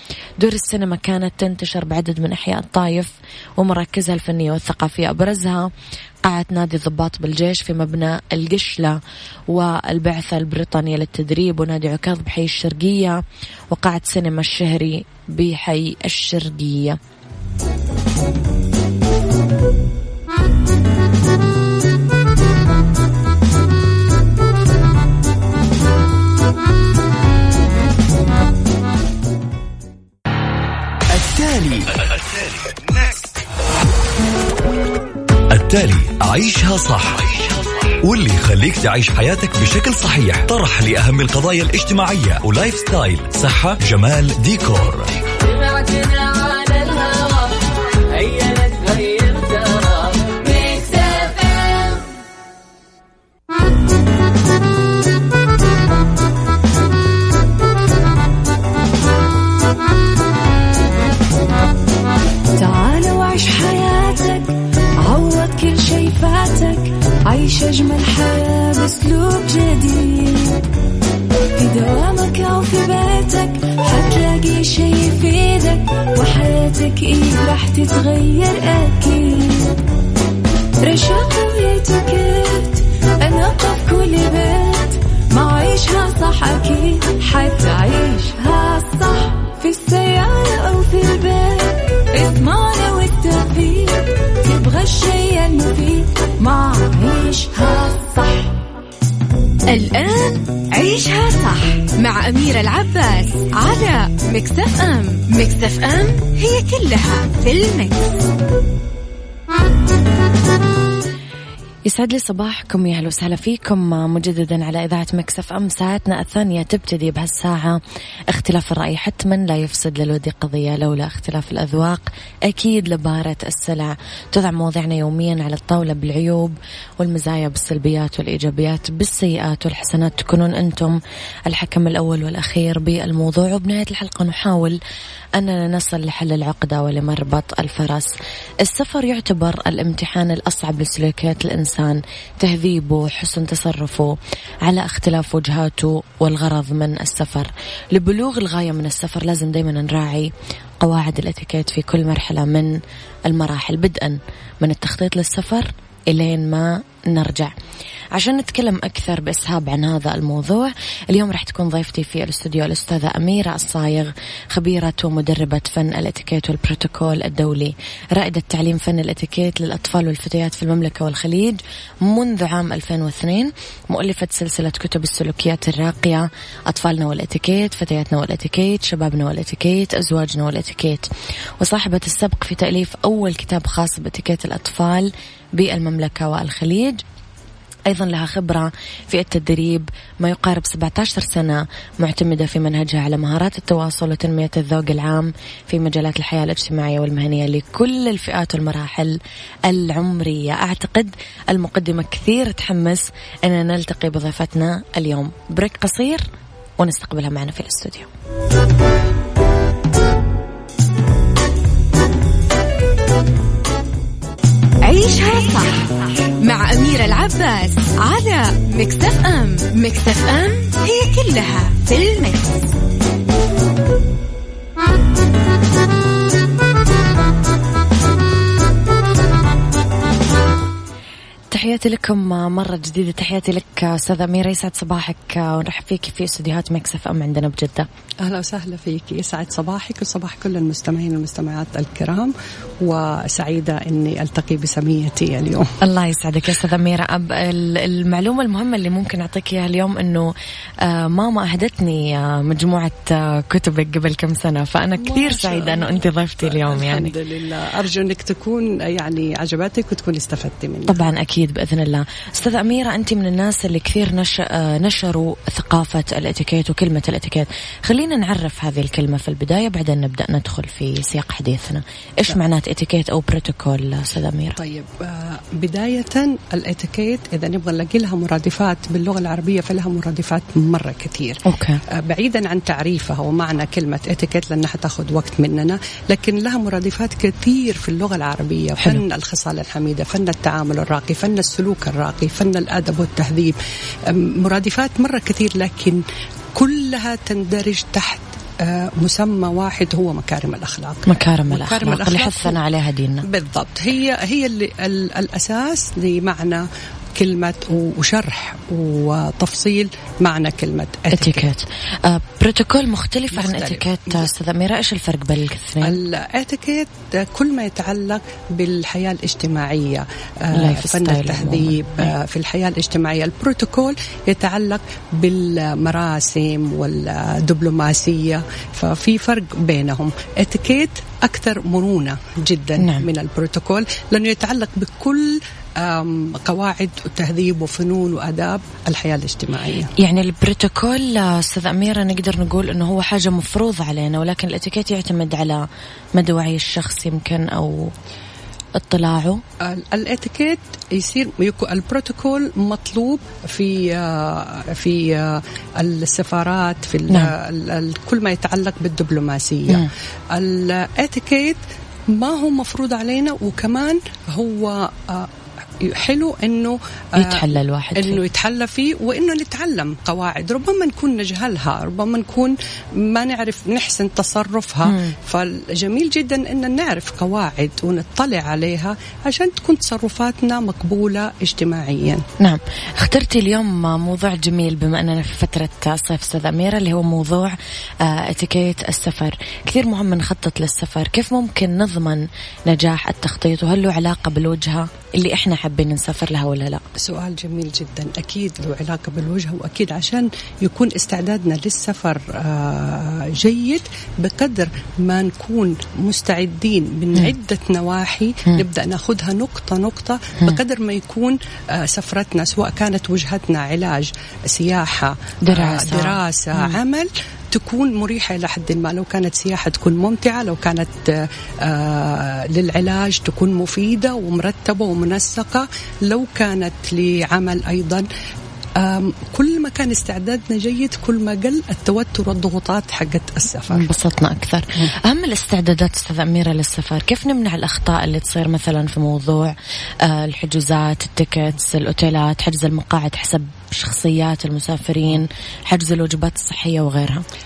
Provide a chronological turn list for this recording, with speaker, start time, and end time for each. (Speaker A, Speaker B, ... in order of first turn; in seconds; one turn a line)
Speaker A: 0.4-5.7
Speaker A: 6.2-9.0
Speaker A: 9.5-17.0
Speaker B: 31.1-32.9
Speaker B: 35.5-45.1
Speaker C: 50.3-52.0
Speaker D: 62.5-70.7
Speaker D: 71.5-79.8
Speaker D: 80.8-98.5
Speaker C: 99.7-108.2
Speaker A: 111.8-134.8
Speaker A: 135.4-157.5
Speaker A: 158.1-181.1
Speaker A: 181.6-187.0
Speaker A: 187.9-206.2
Speaker A: 206.8-208.1
Speaker C: 214.8-222.7
Speaker A: 231.5-237.9
Speaker E: 238.2-245.7
Speaker A: 245.8-250.3
Speaker A: 250.8-257.1
Speaker E: 255.0-261.0
Speaker A: 260.9-274.6
Speaker E: 274.6-296.0
Speaker A: 281.4-281.8
Speaker E: 296.5-302.6
Speaker A: 301.1-303.2
Speaker E: 303.2-311.5
Speaker A: 311.1-316.0
Speaker E: 313.3-314.3
Speaker E: 315.8-339.9
Speaker A: 320.5-322.1
Speaker A: 332.8-333.1
Speaker A: 340.0-347.9
Speaker A: 348.8-349.4
Speaker E: 349.6-382.2
Speaker A: 367.2-368.2
Speaker A: 374.9-375.1
Speaker A: 382.4-396.8
Speaker E: 397.0-428.1
Speaker A: 415.4-416.8
Speaker E: 428.8-433.9
Speaker A: 433.7-447.2